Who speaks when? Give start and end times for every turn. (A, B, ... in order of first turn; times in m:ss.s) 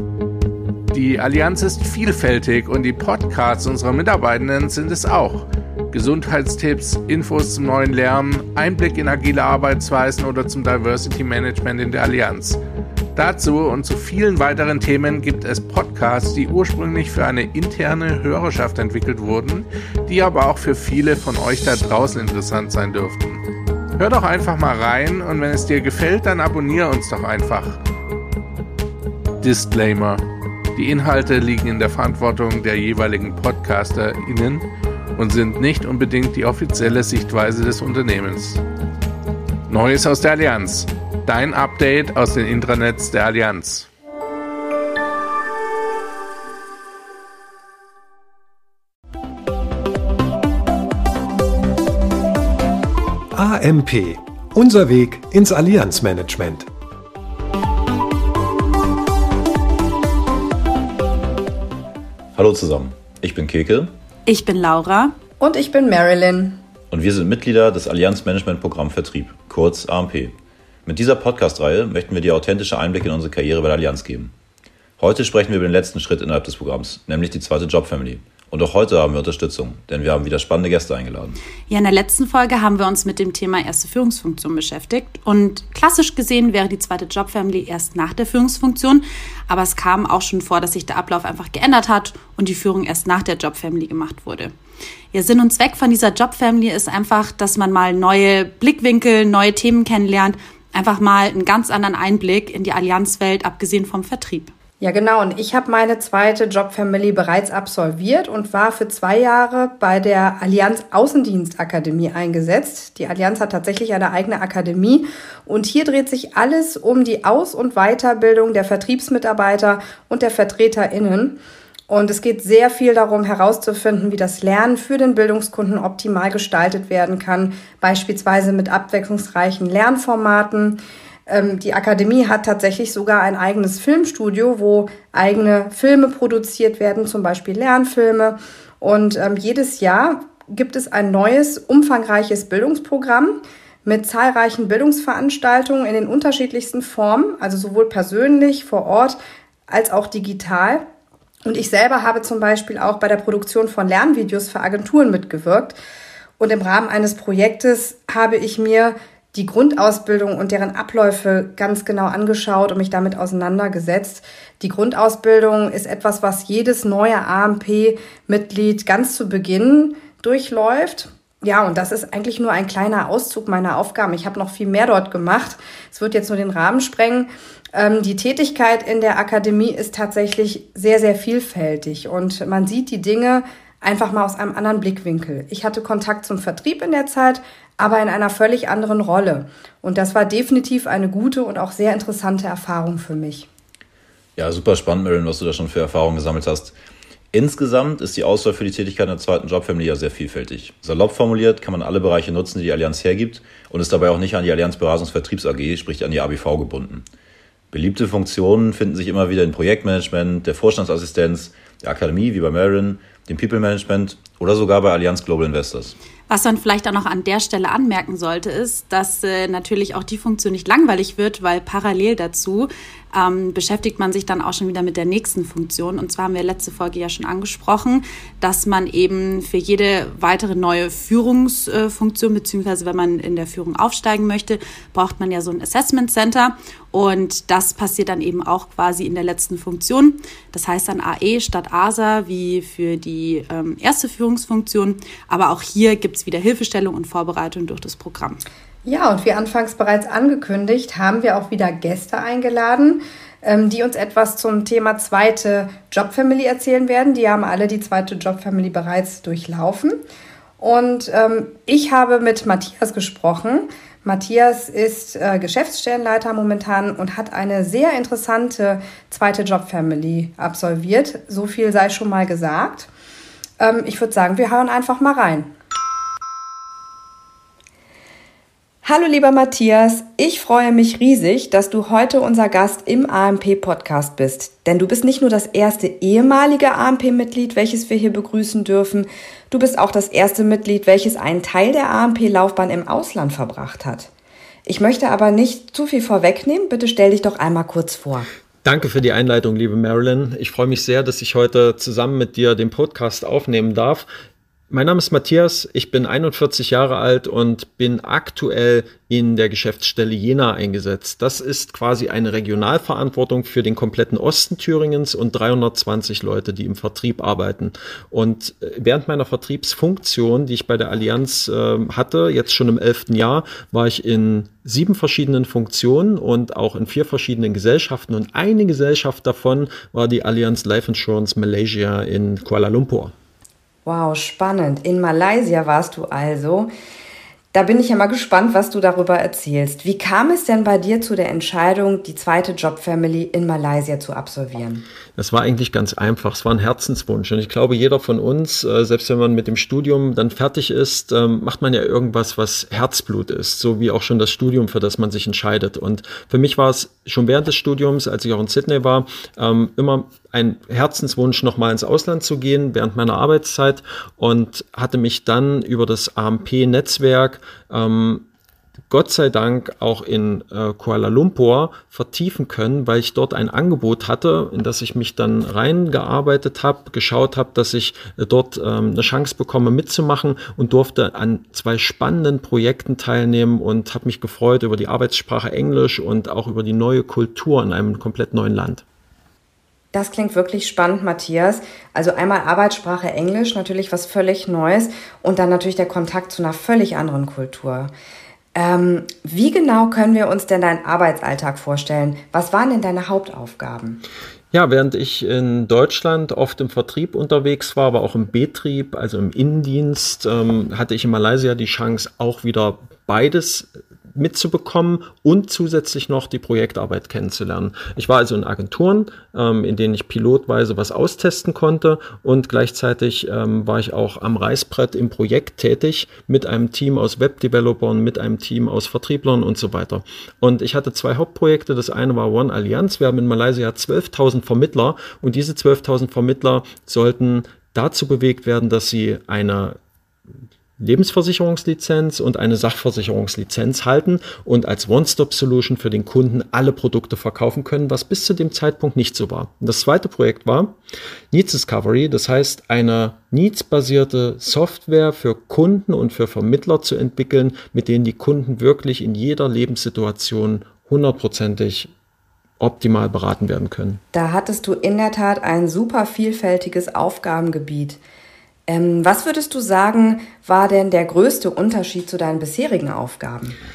0:00.9-0:12.6 A
0:13.1-0:23.4 A
0:24.0-0:27.8 A
0:29.4-0:30.2 A
0:30.8-0:34.6 A
0:35.2-0:38.6 A
0:39.7-0:43.9 A
0:53.3-0:56.7 B
1:02.4-1:03.9 C
1:04.3-1:05.2 D
1:05.4-1:06.6 E
1:06.9-1:10.4 C
1:10.9-1:14.3 C
1:15.0-1:21.4 C
1:21.7-1:34.5 D
1:35.1-1:44.5 D
1:44.8-2:30.9 E
2:31.4-2:35.8 E
2:36.4-3:13.5 E
3:14.4-3:16.8 C
3:17.3-3:27.1 C
3:27.7-3:36.0 C
3:36.3-4:08.4 D
4:08.8-4:20.0 E
4:20.6-4:32.9 E
4:33.6-4:35.5 E
4:38.8-4:54.1 F
4:54.7-4:58.3 F
4:58.6-5:04.1 G
5:04.7-5:33.1 G
5:33.9-5:36.7 F
5:37.5-5:44.8 F
5:45.2-6:08.2 G
6:08.9-6:28.8 G
6:29.9-6:37.9 F
6:38.5-6:44.0 F
6:44.5-7:19.8 G
7:20.8-7:30.8 G
7:31.3-7:41.9 G
7:42.6-7:44.0 G
7:44.1-7:48.0 F
7:48.7-7:53.6 F